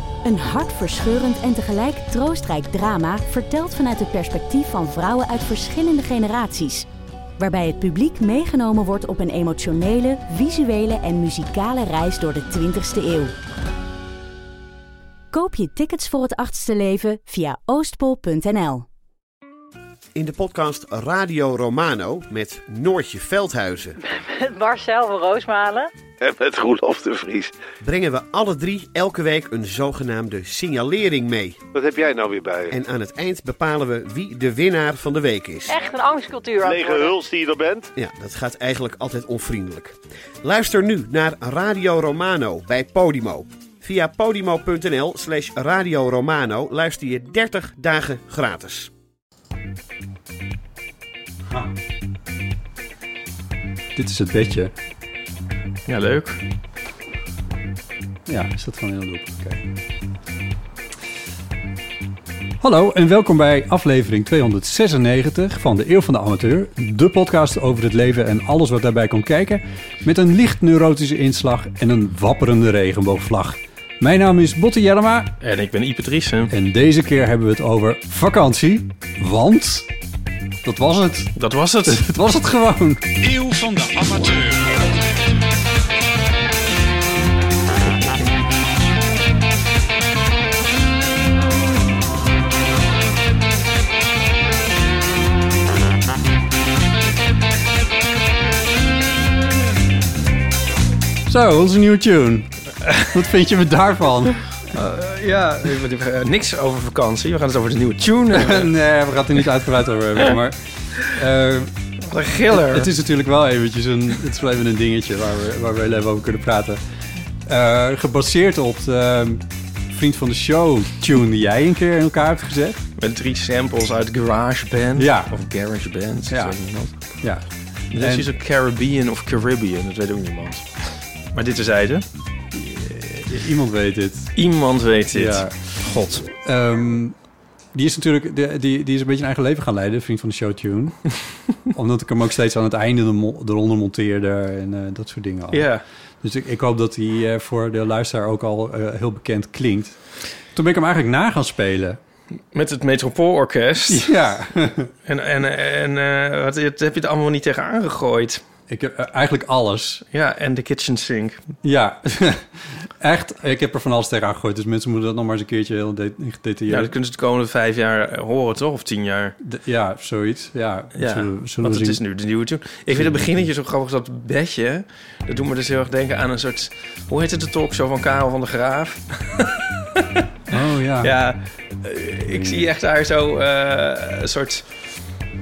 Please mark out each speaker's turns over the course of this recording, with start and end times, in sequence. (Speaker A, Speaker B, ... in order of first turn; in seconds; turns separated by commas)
Speaker A: 0.2-6.9, Speaker A: 7.4-13.3, Speaker A: 15.3-18.9, Speaker B: 20.1-24.0, Speaker C: 24.0-25.9, Speaker D: 26.2-27.5, Speaker B: 27.8-31.6, Speaker D: 31.7-32.8, Speaker B: 32.7-35.8, Speaker C: 35.7-37.2, Speaker D: 36.6-37.9, Speaker B: 38.0-48.9, Speaker E: 53.9-54.7, Speaker F: 55.9-56.4, Speaker E: 58.2-59.7, Speaker E: 62.6-75.3, Speaker F: 75.4-76.5, Speaker E: 76.5-79.9, Speaker E: 80.6-81.3, Speaker F: 81.3-82.1, Speaker E: 81.8-83.1, Speaker D: 83.2-84.9, Speaker E: 101.3-102.5, Speaker F: 102.8-103.1, Speaker E: 103.0-104.4, Speaker F: 104.7-108.7, Speaker E: 108.3-111.7, Speaker F: 112.0-112.9, Speaker E: 112.5-116.8, Speaker E: 117.4-122.8, Speaker F: 123.0-127.0, Speaker E: 124.9-125.3, Speaker E: 126.3-126.6, Speaker E: 127.2-128.3, Speaker F: 127.9-130.7, Speaker F: 131.3-132.1, Speaker E: 132.5-134.3, Speaker F: 134.3-136.2, Speaker E: 135.1-135.6, Speaker E: 136.3-137.2, Speaker E: 137.7-141.0, Speaker E: 141.7-145.7, Speaker F: 145.5-145.8, Speaker E: 146.2-150.0, Speaker E: 150.5-152.0, Speaker F: 152.5-154.1, Speaker E: 153.9-154.9, Speaker F: 155.1-158.4, Speaker E: 158.7-160.0, Speaker F: 160.1-161.4, Speaker E: 161.6-166.9, Speaker F: 166.7-169.3, Speaker E: 169.4-172.0, Speaker F: 170.9-184.6, Speaker E: 172.9-173.5, Speaker E: 180.5-181.1, Speaker E: 182.3-182.7